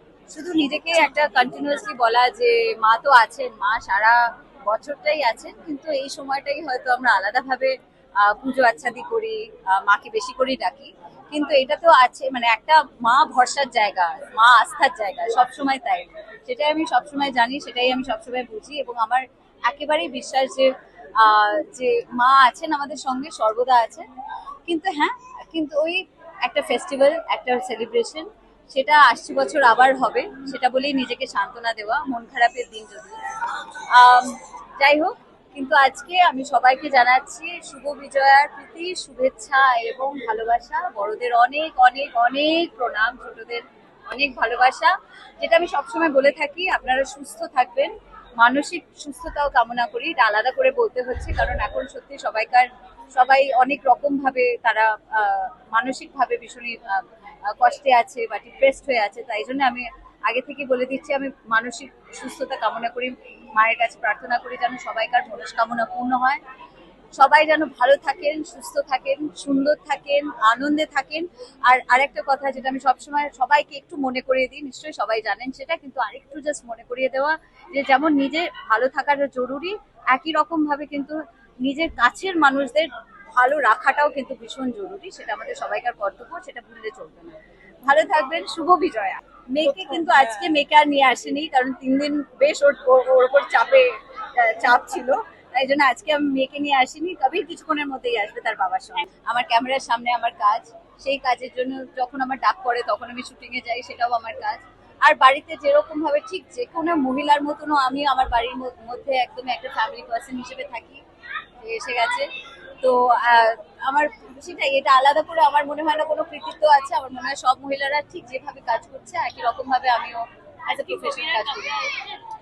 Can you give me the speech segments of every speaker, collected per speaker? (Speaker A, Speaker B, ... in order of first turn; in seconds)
Speaker A: 0.3-24.1, 24.6-66.4, 67.2-111.0, 111.6-122.1